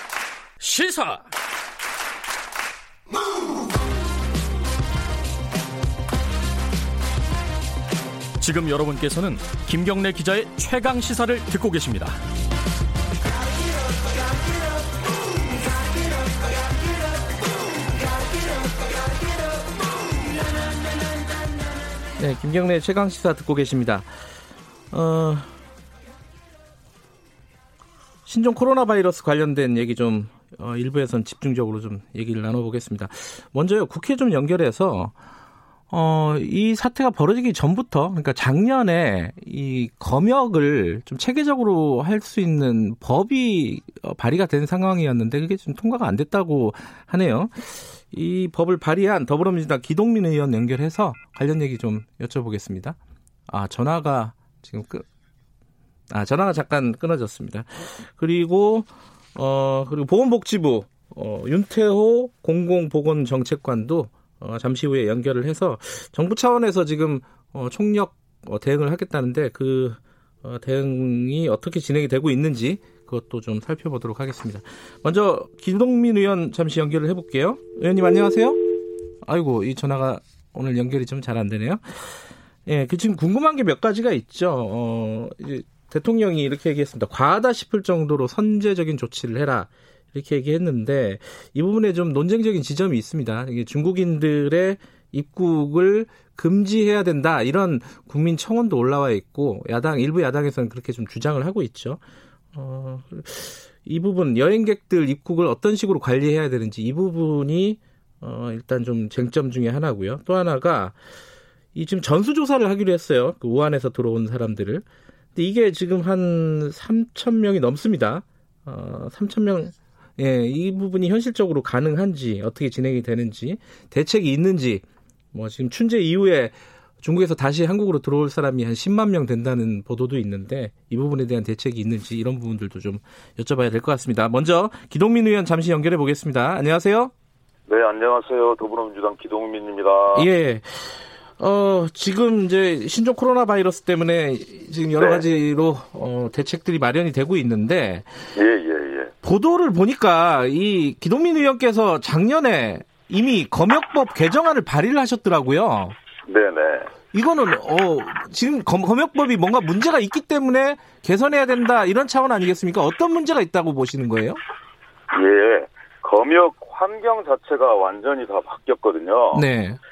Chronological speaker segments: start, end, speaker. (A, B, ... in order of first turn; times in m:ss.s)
0:00.6-0:01.3 A
0:08.4-0:12.2 A
0:22.2-0:24.1 B
0:24.9-0:25.5 B
0:28.3-0:35.1 B
0:35.9-0:53.0 B
0:53.5-0:55.0 B
0:56.1-1:18.6 B
1:19.2-1:21.8 B
1:22.7-1:42.0 B
1:42.5-1:51.0 B
1:51.8-2:17.1 B
2:17.7-2:20.3 C
2:20.1-2:28.1 B
2:25.0-2:25.3 C
2:28.4-2:29.1 C
2:29.2-2:36.0 B
2:36.3-2:36.9 C
2:37.1-2:44.4 B
2:45.1-2:49.5 C
2:49.3-2:49.8 B